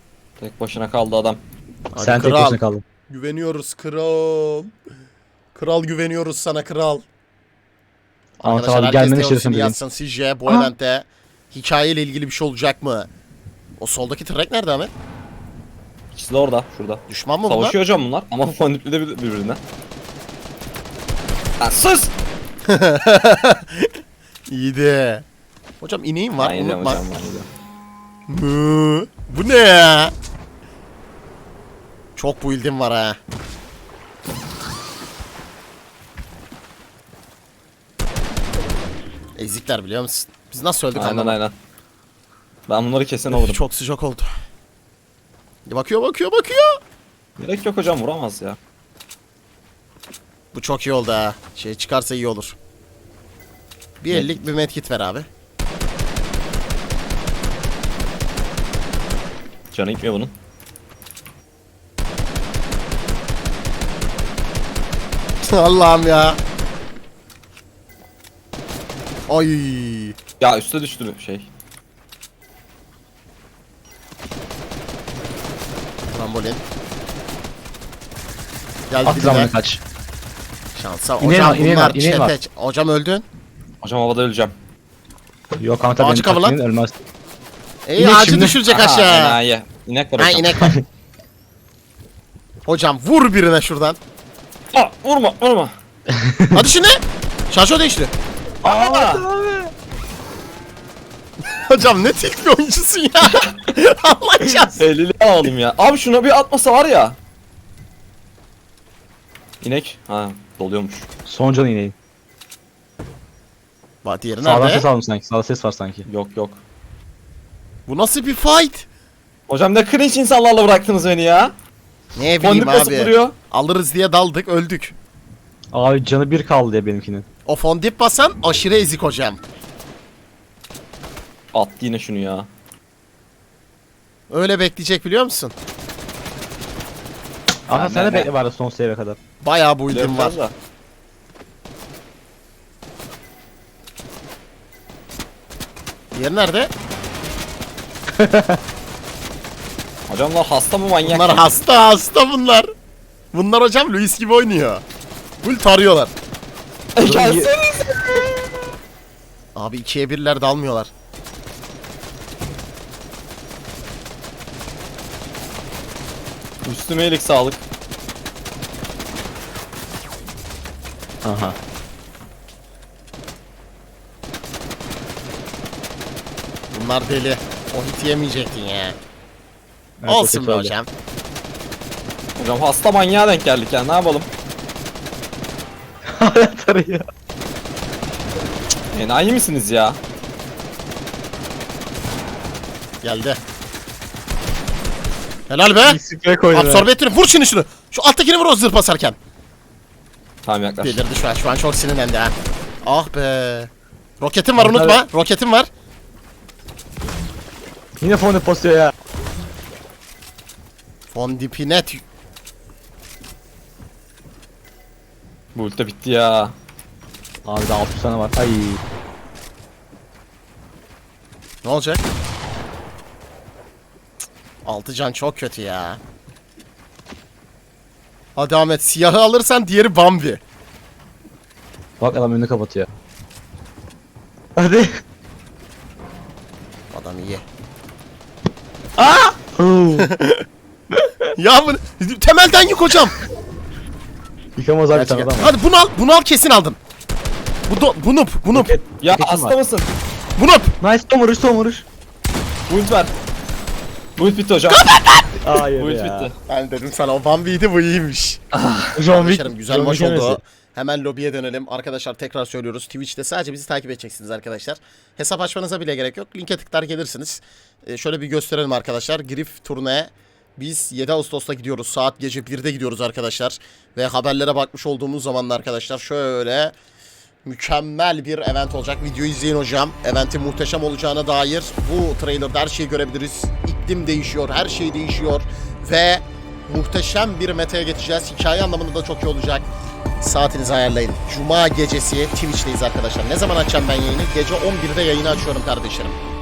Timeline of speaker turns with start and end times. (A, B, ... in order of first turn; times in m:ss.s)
0:00.4-0:01.4 A
0:01.9-0:04.7 B
0:02.0-0:02.8 C
0:05.6-0:07.0 B
0:08.4-0:13.1 B
0:08.4-0:09.8 C
0:13.8-0:14.9 B
0:16.1-0:19.6 A
0:17.1-0:17.8 B
0:21.6-0:22.1 A
0:22.6-0:24.0 B
0:24.5-0:25.2 B
0:25.8-0:27.0 B
0:26.4-0:27.5 A
0:28.3-0:30.1 B
0:32.2-0:33.2 B
0:39.4-0:41.4 B
0:41.0-0:41.5 A
0:42.7-0:43.6 A
0:43.3-0:44.3 B
0:45.7-0:46.8 B
0:47.4-0:48.6 A
0:50.5-0:52.6 B
0:54.0-0:55.3 B
0:59.7-1:00.3 A
1:05.4-1:06.4 B
1:09.3-1:10.2 B
1:10.4-1:11.5 A
1:16.1-1:16.6 B
1:18.9-1:19.5 B
1:19.0-1:19.8 C
1:20.8-1:23.2 B
1:21.2-1:22.3 C
1:23.8-1:24.6 A
1:25.6-1:27.0 C
1:26.0-1:26.6 B
1:27.9-1:29.4 B
1:28.0-1:28.6 C
1:28.6-1:30.7 A
1:30.2-1:30.7 B
1:32.6-1:34.0 B
1:34.7-1:35.7 A
1:36.1-1:36.6 C
1:36.5-1:38.1 B
1:38.6-1:39.7 C
1:38.6-1:39.2 A
1:41.4-1:44.8 B
1:44.7-1:47.2 A
1:49.6-1:51.1 A
1:51.3-1:52.0 C
1:54.0-1:54.9 B
1:54.4-1:56.0 C
1:56.1-1:56.6 A
1:57.9-1:58.9 B
1:59.5-2:01.5 A
2:02.2-2:05.0 B
2:02.4-2:03.3 A
2:05.7-2:07.3 C
2:07.5-2:09.4 B
2:11.5-2:12.5 A
2:14.3-2:15.5 B
2:17.7-2:19.2 C
2:17.7-2:18.3 A
2:19.4-2:20.4 B
2:19.9-2:20.5 A
2:26.1-2:26.7 B
2:28.1-2:28.6 C
2:30.1-2:31.4 A
2:31.0-2:32.7 B
2:33.3-2:34.8 B
2:35.4-2:36.1 B
2:37.0-2:38.5 A
2:37.0-2:37.5 C
2:39.6-2:40.9 B
2:46.6-2:47.6 A
2:51.2-2:51.6 C
2:56.7-2:59.0 B
3:00.0-3:00.7 C
3:00.1-3:00.9 B
3:02.4-3:04.3 A
3:06.1-3:07.1 C
3:08.9-3:10.0 A
3:13.0-3:13.4 B
3:15.5-3:16.0 B
3:15.8-3:16.9 C
3:16.5-3:19.2 B
3:20.4-3:21.0 A
3:20.8-3:25.7 B
3:24.6-3:25.0 C
3:28.0-3:28.9 C
3:31.1-3:32.0 B
3:35.6-3:36.6 A
3:37.4-3:38.8 C
3:41.6-3:42.0 B
3:44.6-3:46.0 B
3:48.4-3:50.4 B
3:52.0-3:52.9 C
3:54.6-3:55.0 C
3:56.9-3:57.4 B
3:59.0-4:00.1 C
4:00.0-4:00.4 B
4:01.0-4:01.3 C
4:01.4-4:03.1 B
4:04.6-4:05.5 C
4:04.9-4:06.8 B
4:07.7-4:08.8 B
4:08.5-4:09.6 C
4:09.0-4:09.9 A
4:10.4-4:10.7 B
4:10.8-4:11.8 C
4:12.7-4:13.1 A
4:14.2-4:14.9 A
4:14.7-4:15.3 B
4:15.4-4:16.3 C
4:15.8-4:16.3 A
4:16.5-4:18.4 B
4:18.5-4:19.0 A
4:19.0-4:20.4 C
4:19.1-4:36.7 B
4:37.4-4:49.7 B
4:50.2-4:56.2 B